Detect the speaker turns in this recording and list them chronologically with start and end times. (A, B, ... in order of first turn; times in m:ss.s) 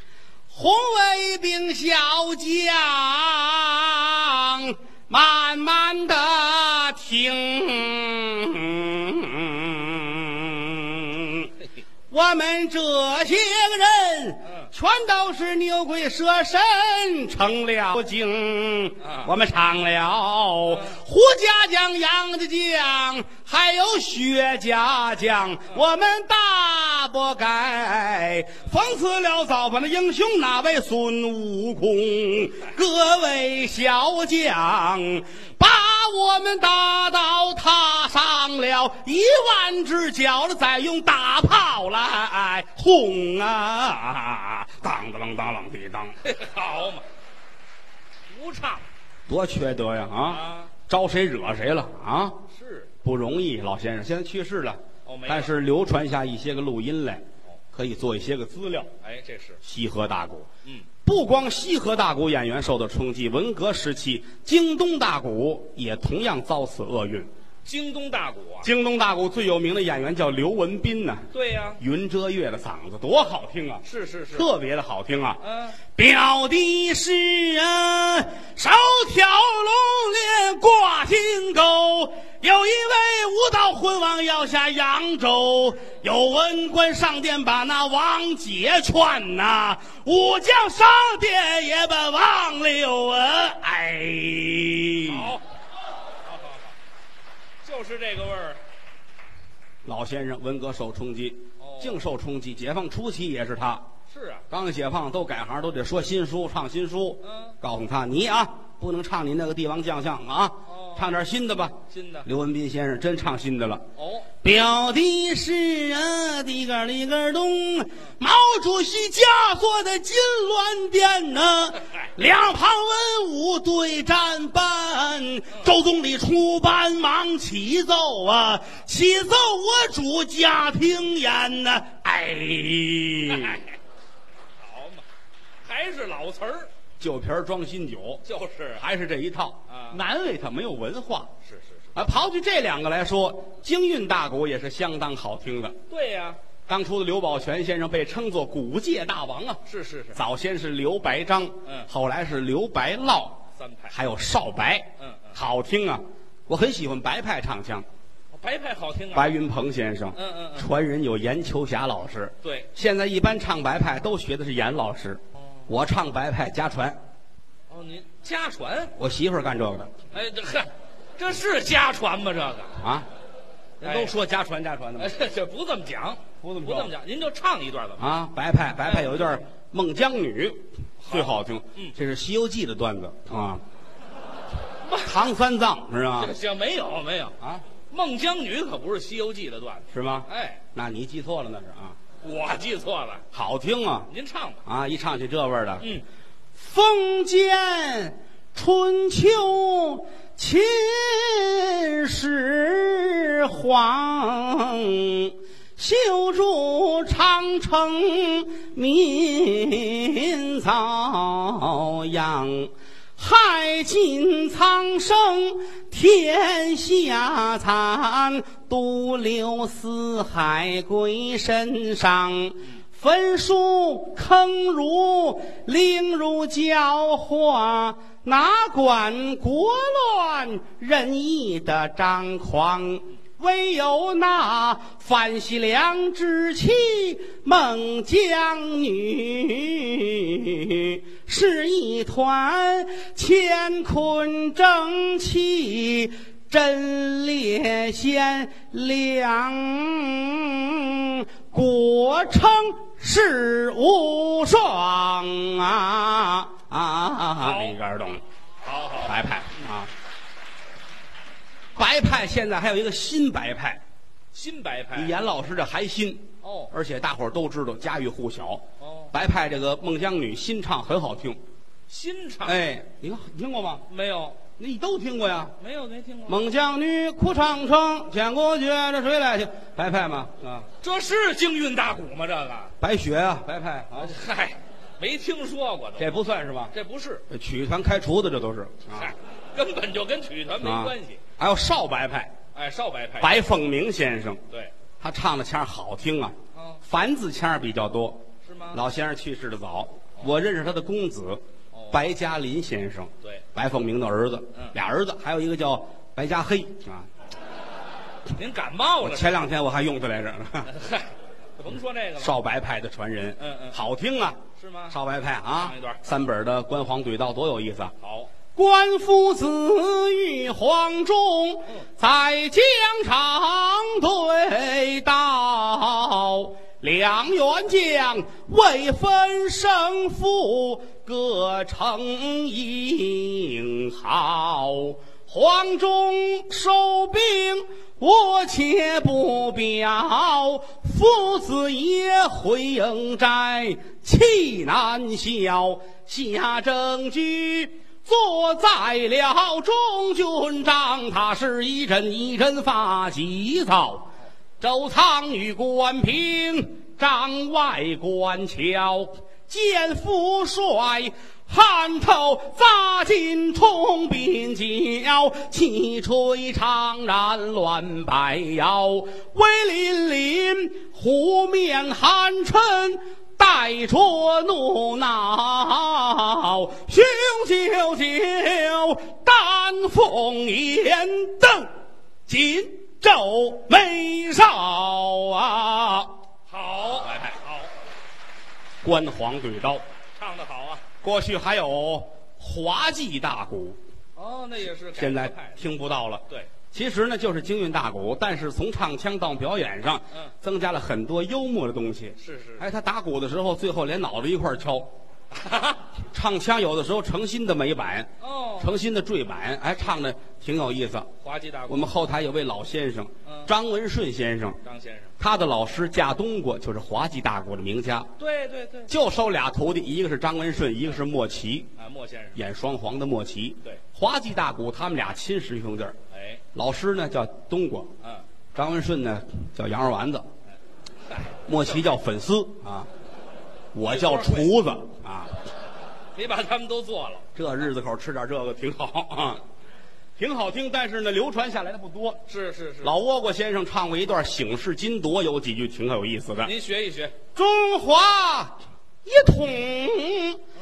0:00.5-0:11.5 A
0:12.1-0:46.2 A
0:19.0-0:19.3 B
0:46.2-0:47.0 B
0:48.3-0:48.9 B
0:49.3-0:52.4 A
0:50.2-0:50.7 B
0:52.5-0:52.9 B
0:53.0-0:58.9 A
0:55.1-0:55.5 B
0:59.0-0:59.6 B
0:59.6-1:00.5 A
1:01.0-1:07.3 A
1:07.6-1:08.7 B
1:08.6-1:11.3 A
1:11.3-1:11.8 B
1:11.8-1:15.4 A
1:13.8-1:14.5 B
1:15.4-1:15.8 B
1:16.0-1:35.4 A
1:35.1-1:35.4 B
1:36.2-1:36.7 B
1:37.6-1:38.6 B
1:39.8-1:43.9 A
1:41.6-1:42.0 B
1:44.1-1:44.4 B
1:44.5-1:53.8 A
1:47.2-1:47.6 B
1:50.7-1:51.1 B
1:51.9-1:52.3 B
1:54.0-1:54.3 B
1:54.4-2:13.6 A
2:13.3-2:13.7 B
2:14.6-2:15.0 B
2:15.6-2:16.7 B
2:17.0-2:18.2 A
2:18.2-2:18.8 B
2:18.8-2:21.3 A
2:19.7-2:20.0 B
2:21.4-2:21.9 B
2:22.0-2:25.8 A
2:25.9-2:26.4 B
2:26.7-2:29.6 A
2:29.6-2:30.2 B
2:30.1-2:33.4 A
2:33.6-2:34.0 B
2:33.9-2:37.9 A
2:35.0-2:35.4 B
2:38.3-2:39.4 B
2:39.1-2:47.0 A
2:40.1-2:40.7 B
2:42.4-2:42.7 B
2:47.7-2:48.9 B
2:49.0-2:49.9 A
2:50.1-2:52.8 B
2:52.8-2:53.1 A
2:53.8-2:55.1 A
2:53.8-2:54.1 B
2:55.0-2:58.1 B
2:56.4-2:56.9 A
2:58.0-3:03.6 A
2:58.8-2:59.3 B
3:01.0-3:02.0 B
3:05.0-3:06.4 A
3:06.2-3:07.4 B
3:07.9-3:10.6 B
3:09.9-3:12.0 A
3:12.2-3:13.2 B
3:13.3-3:14.1 A
3:14.1-3:14.6 B
3:14.6-3:15.9 A
3:16.6-4:18.2 A
4:17.4-4:17.8 B
4:18.6-4:19.3 B
4:19.0-4:19.9 A
4:21.8-4:23.8 A
4:24.3-4:25.2 B
4:24.9-4:31.4 A
4:26.4-4:26.7 B
4:28.8-4:29.1 B
4:31.9-4:32.6 B
4:32.4-4:33.9 A
4:33.9-4:34.4 B
4:34.6-4:35.6 A
4:35.6-4:36.4 B
4:36.3-4:40.7 A
4:40.8-4:42.7 B
4:42.8-4:44.2 A
4:44.0-4:46.1 B
4:46.0-4:46.7 A
4:46.7-4:47.2 B
4:47.3-4:49.1 A
4:48.9-4:51.2 B
4:50.6-4:52.3 A
4:52.5-4:53.4 B
4:53.2-4:54.4 A
4:55.0-5:07.1 A
4:56.6-4:56.8 B
4:58.4-4:58.8 B
5:01.7-5:02.0 B
5:08.3-5:09.4 B
5:09.0-5:10.7 A
5:10.7-5:12.4 B
5:12.2-5:17.9 A
5:13.4-5:13.8 B
5:14.6-5:15.0 B
5:15.6-5:16.0 B
5:18.0-5:18.3 B
5:18.6-6:21.7 A
6:22.3-6:26.2 A
6:26.5-6:27.7 B
6:27.1-6:27.3 A
6:28.8-6:29.8 A
6:30.2-6:30.8 B
6:31.0-6:33.8 A
6:34.2-6:35.6 B
6:34.9-6:44.9 A
6:42.2-6:42.6 B
6:45.3-6:45.8 B
6:46.1-6:51.1 A
6:48.2-6:48.7 B
6:51.2-6:52.0 B
6:51.7-6:54.6 A
6:53.2-6:53.5 B
6:54.6-6:55.1 B
6:55.2-6:58.1 A
6:58.2-6:58.9 B
6:58.9-7:01.7 A
7:01.8-7:02.4 B
7:02.4-7:06.0 A
7:06.1-7:06.4 B
7:06.5-7:07.9 A
7:08.5-7:10.3 A
7:11.1-7:11.8 B
7:11.4-7:12.9 A
7:13.7-7:15.4 A
7:13.8-7:14.5 B
7:16.2-7:17.3 B
7:17.4-7:19.4 A
7:20.2-7:22.2 A
7:22.3-7:22.9 B
7:22.8-7:26.5 A
7:26.4-7:27.2 B
7:27.4-7:30.4 A